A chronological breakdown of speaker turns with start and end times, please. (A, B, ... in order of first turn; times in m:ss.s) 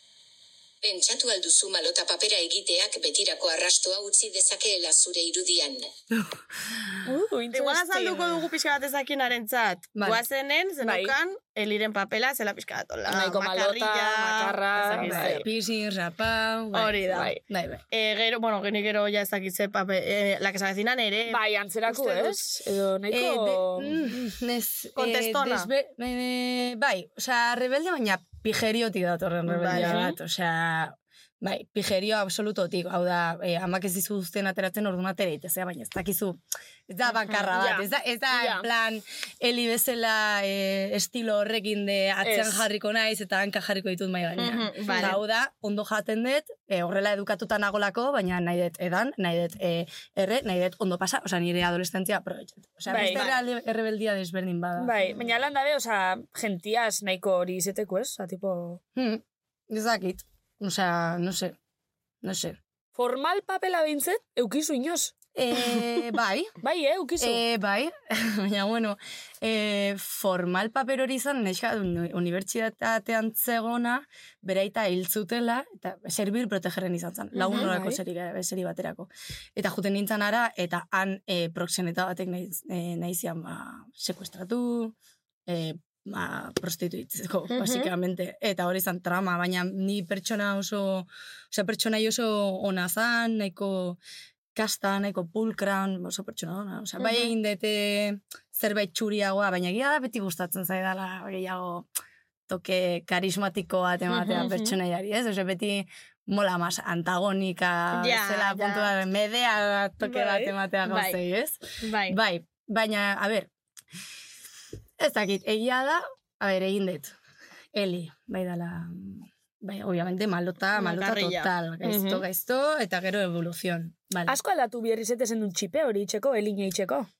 0:00.8-0:05.9 A
0:07.0-0:08.4 B
0:07.5-0:15.5 C
0:10.0-0:10.2 D
0:10.8-0:11.1 B
0:13.1-0:15.4 B
0:15.0-0:17.8 D
0:16.7-0:17.4 C
0:17.9-0:22.4 C
0:21.3-0:24.1 B
0:23.1-0:54.9 D
0:25.0-0:25.7 C
0:29.6-0:30.1 C
0:29.6-0:30.1 B
0:37.5-0:38.7 B
0:42.2-0:42.6 B
0:44.4-0:45.2 C
0:44.9-0:45.2 B
0:52.9-0:53.2 B
0:52.9-0:53.4 C
0:54.8-0:58.8 B
0:58.9-1:01.6 D
1:02.2-1:02.6 D
1:02.9-1:05.1 B
1:05.3-1:06.6 D
1:06.6-1:07.4 B
1:07.2-1:25.0 D
1:17.4-1:17.7 C
1:17.4-1:18.0 B
1:25.5-1:34.0 D
1:27.5-1:27.9 C
1:34.5-1:41.9 D
1:42.5-1:53.5 D
1:44.1-1:44.8 C
1:47.9-1:48.9 C
1:50.0-1:50.5 B
1:50.8-1:51.2 C
1:51.8-1:52.2 C
1:55.0-1:57.1 D
1:57.7-2:04.4 D
2:00.7-2:01.5 C
2:01.9-2:02.2 B
2:04.3-2:07.1 B